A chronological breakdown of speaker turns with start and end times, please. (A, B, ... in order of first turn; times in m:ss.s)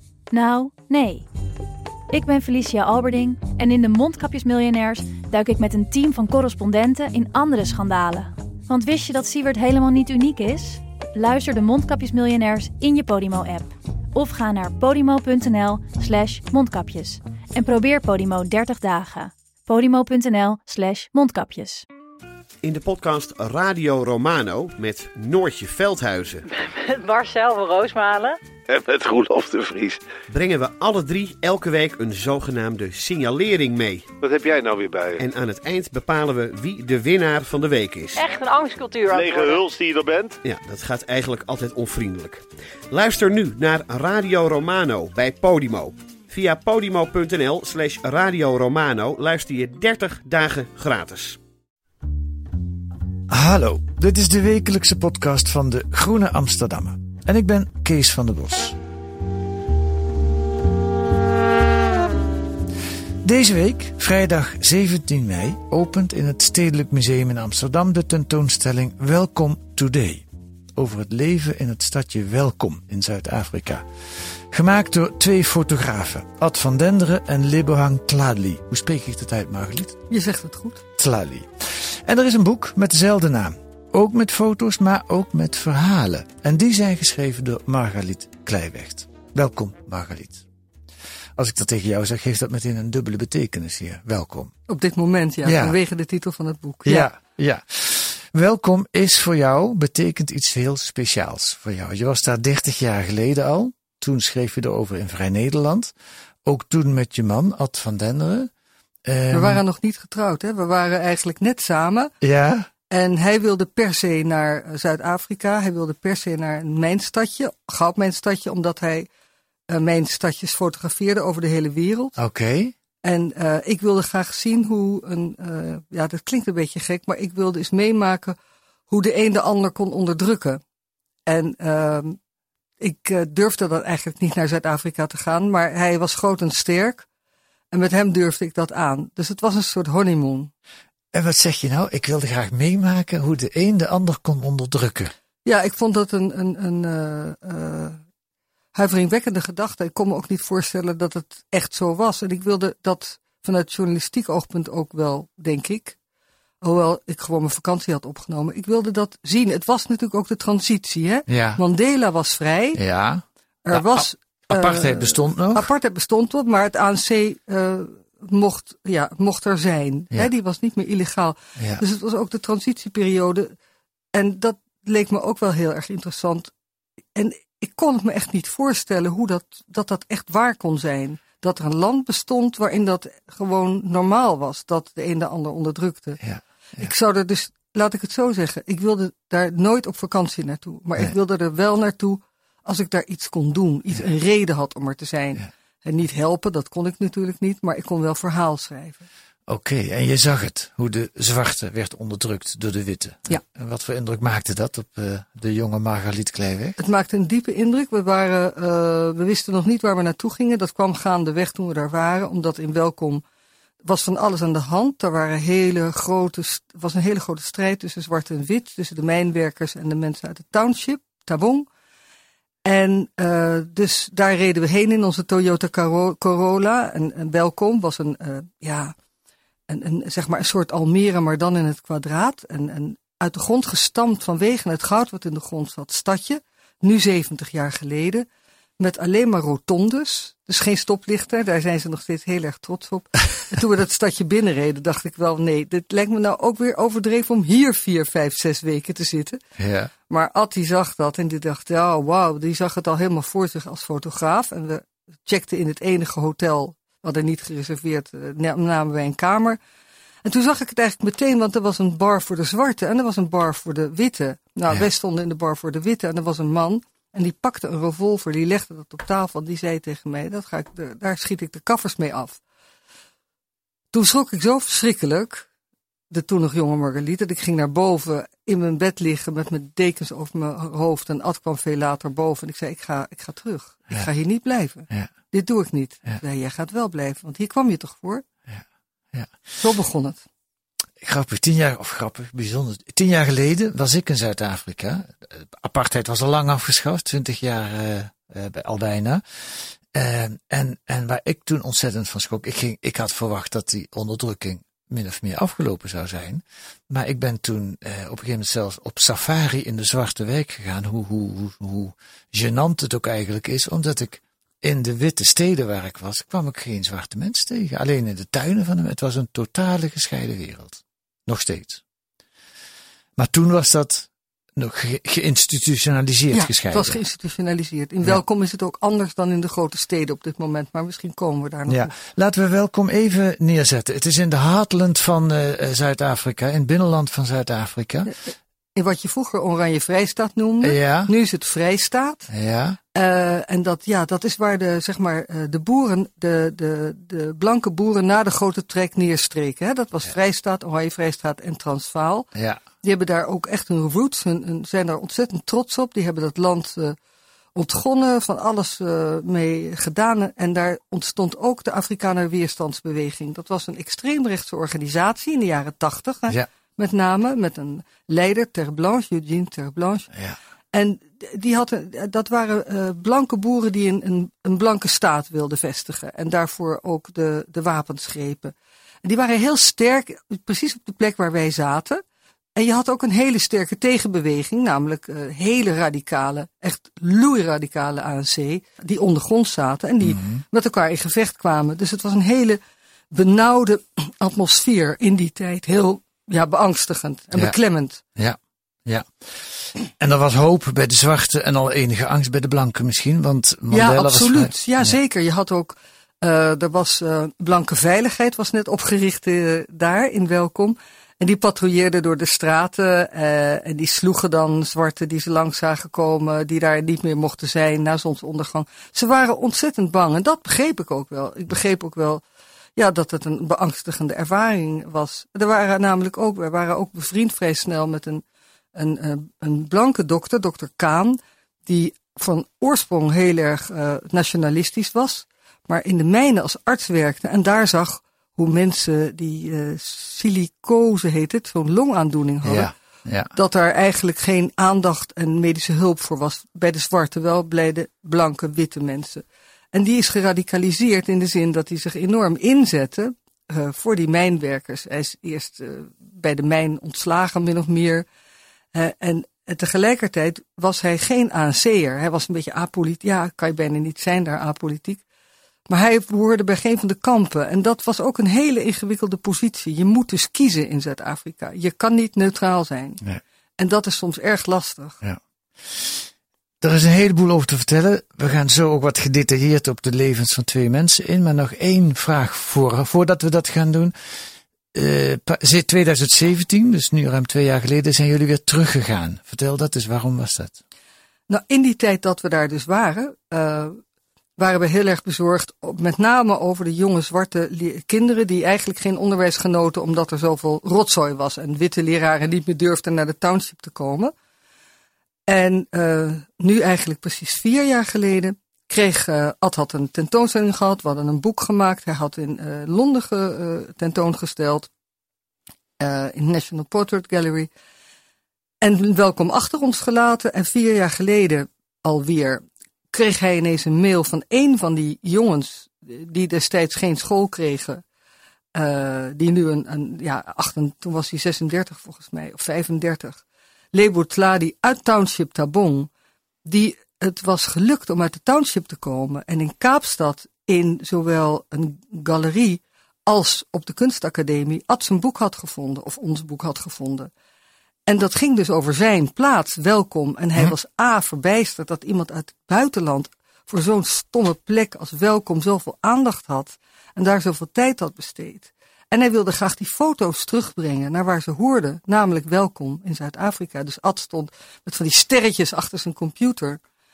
0:00.3-0:01.3 A
0:02.1-0:21.9 A
0:22.6-0:26.4 B
0:26.5-0:28.4 C
0:28.7-0:30.0 D
0:30.3-0:34.1 B
0:34.2-0:35.2 D
0:35.2-0:38.2 B
0:38.2-0:39.7 C
0:39.1-0:40.4 D
0:40.4-0:51.4 B
0:53.3-0:58.8 E
1:03.2-1:20.0 E
1:20.1-1:20.8 F
1:21.0-1:30.4 E
1:31.4-1:34.5 E
1:34.7-1:37.1 F
1:35.4-1:35.8 E
1:36.8-1:45.9 E
1:46.4-1:48.5 E
1:49.1-1:49.6 E
1:49.3-1:52.1 F
1:52.2-1:52.7 E
1:52.9-1:59.1 F
1:59.7-2:02.2 F
2:02.2-2:02.8 E
2:03.0-2:08.4 F
2:08.9-2:10.6 F
2:11.3-2:12.2 F
2:12.8-2:17.1 F
2:17.7-2:20.5 F
2:21.1-2:25.1 E
2:25.4-2:28.0 F
2:28.8-2:36.0 F
2:36.6-2:42.8 F
2:41.3-2:41.6 E
2:42.8-2:45.7 E
2:43.6-2:53.5 F
2:51.6-2:51.8 E
2:54.1-2:56.5 F
2:57.2-3:06.2 F
3:06.2-3:06.9 E
3:06.8-3:19.1 F
3:19.5-3:26.8 E
3:26.8-3:33.2 F
3:33.8-3:41.7 F
3:42.6-3:49.0 F
3:49.7-3:58.3 F
3:58.8-4:09.4 F
4:09.6-4:09.9 E
4:10.1-4:19.6 F
4:20.2-4:32.4 F
4:33.9-4:35.5 F
4:36.1-4:48.2 F
4:49.6-4:50.2 F
4:51.0-5:21.8 E
5:23.2-5:27.0 E
5:26.3-5:31.9 F
5:31.7-5:38.1 E
5:38.1-5:42.3 F
5:40.6-5:41.1 E
5:42.3-5:42.8 E
5:43.0-5:52.3 F
5:52.4-5:52.6 E
5:52.8-5:57.0 F
5:57.6-6:10.1 F
6:10.7-6:22.0 F
6:22.6-6:32.6 F
6:30.0-6:30.4 E
6:33.1-6:38.0 F
6:38.2-6:45.0 E
6:43.7-7:02.2 F
7:02.8-7:22.7 F
7:22.4-7:23.4 E
7:23.3-7:38.1 F
7:38.7-7:45.0 F
7:45.7-7:53.0 F
7:53.6-7:55.0 F
7:55.0-7:56.1 E
7:56.6-8:03.9 E
8:04.7-8:10.6 E
8:11.3-8:13.8 F
8:14.4-8:24.1 F
8:25.3-8:34.7 F
8:35.8-8:37.5 F
8:38.6-8:47.8 F
8:48.6-8:53.2 F
8:53.7-8:55.9 F
8:56.5-9:07.1 F
9:07.9-9:26.6 F